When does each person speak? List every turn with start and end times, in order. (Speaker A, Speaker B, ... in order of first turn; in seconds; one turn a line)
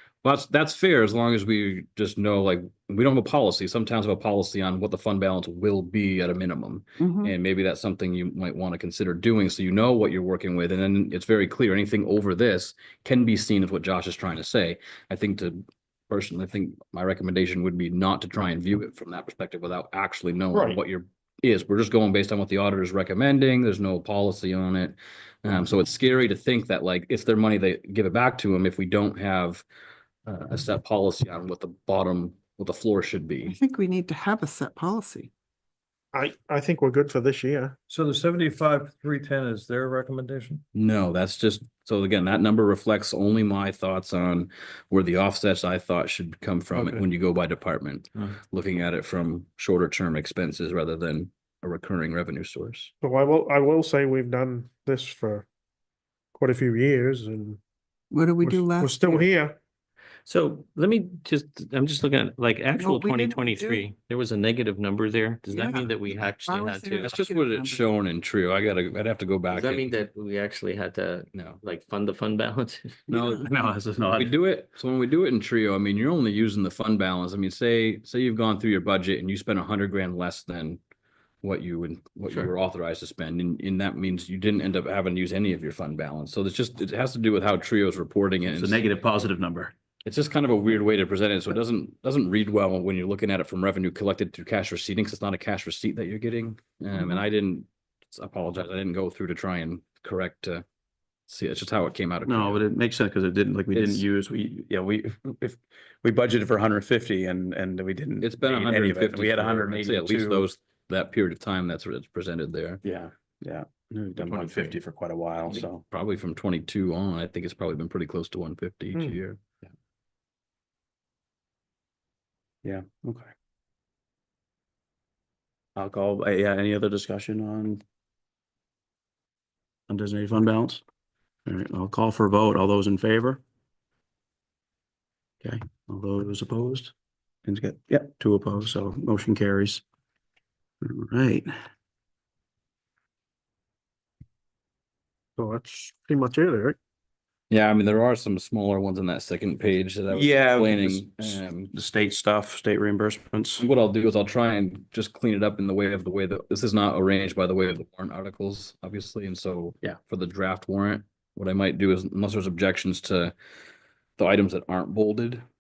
Speaker A: 0.2-29.6
Speaker B: 7.0-7.3
Speaker C: 20.5-20.8
Speaker A: 30.2-33.6
Speaker B: 33.5-35.3
Speaker C: 36.1-37.7
Speaker D: 37.9-40.6
Speaker A: 40.7-52.9
Speaker C: 46.7-47.0
Speaker C: 53.0-55.5
Speaker C: 56.3-57.6
Speaker B: 58.1-59.2
Speaker C: 58.4-59.5
Speaker E: 60.2-67.2
Speaker B: 62.8-63.8
Speaker B: 65.5-67.8
Speaker A: 67.0-69.9
Speaker E: 69.5-73.0
Speaker A: 71.3-71.6
Speaker F: 73.1-74.3
Speaker A: 74.1-80.8
Speaker A: 81.4-88.8
Speaker F: 88.5-89.7
Speaker A: 90.0-100.6
Speaker A: 101.3-102.6
Speaker F: 102.2-110.5
Speaker A: 103.7-104.0
Speaker A: 108.2-112.8
Speaker F: 112.8-115.8
Speaker E: 114.2-114.7
Speaker A: 115.8-119.4
Speaker F: 122.6-123.3
Speaker F: 125.8-127.8
Speaker F: 129.9-130.8
Speaker F: 131.4-133.4
Speaker F: 135.4-136.9
Speaker F: 137.4-139.8
Speaker F: 140.8-141.5
Speaker C: 145.4-146.8
Speaker A: 147.5-151.7
Speaker F: 150.1-153.6
Speaker A: 153.6-163.3
Speaker A: 164.2-165.4